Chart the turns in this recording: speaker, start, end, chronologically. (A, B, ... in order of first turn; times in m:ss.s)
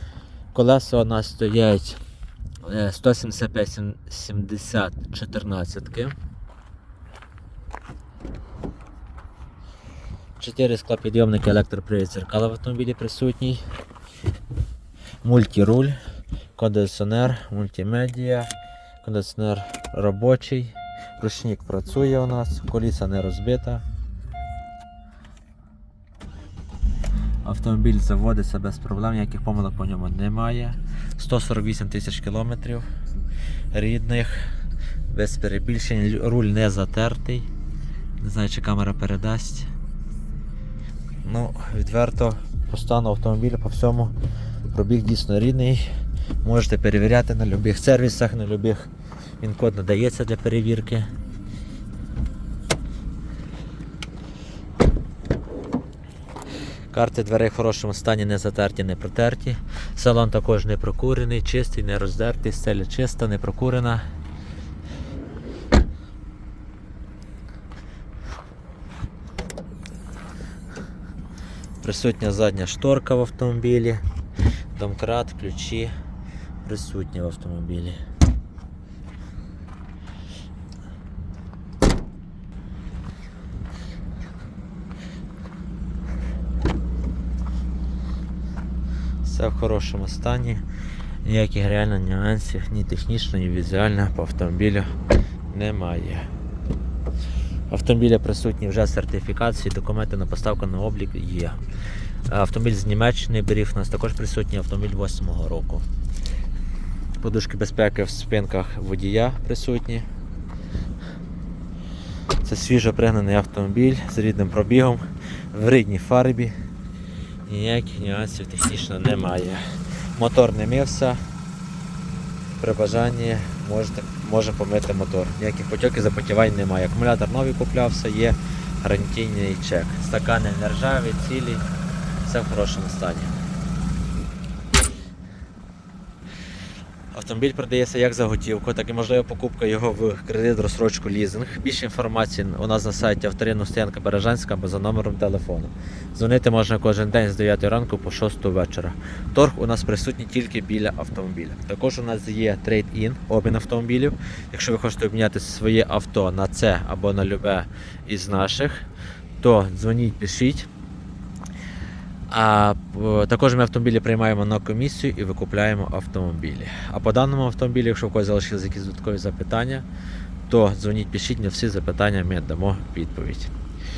0:00.5-0:02.0 A
0:02.6-0:06.2 A
0:10.4-0:13.6 A
0:15.2-0:16.0 A
0:16.6-0:18.5 A
0:19.0-0:23.8 A
0:27.4-0:32.8 A
0:33.7-0:34.4 A
0:35.1-0:37.5 A
0:38.2-0:39.7 A
0:41.2-0:44.1 A
0:44.7-0:45.8 A
0:46.4-0:48.9 A
0:49.4-0:51.1 A
0:56.9-1:04.0 A
1:11.8-1:14.0 A
1:14.8-1:15.9 A
1:16.6-1:18.0 A
1:29.2-1:30.6 A
1:31.2-1:34.9 A
1:35.5-1:36.3 A
1:37.7-1:41.6 A
1:42.3-1:45.8 A
1:47.2-1:50.0 A
1:52.4-1:56.5 A
1:57.5-1:59.6 A
2:00.2-2:01.2 A
2:02.6-2:11.6 A
2:12.2-2:13.3 A
2:17.1-2:38.8 A
2:39.4-2:40.7 A
2:42.3-2:49.9 A
2:50.5-2:53.5 A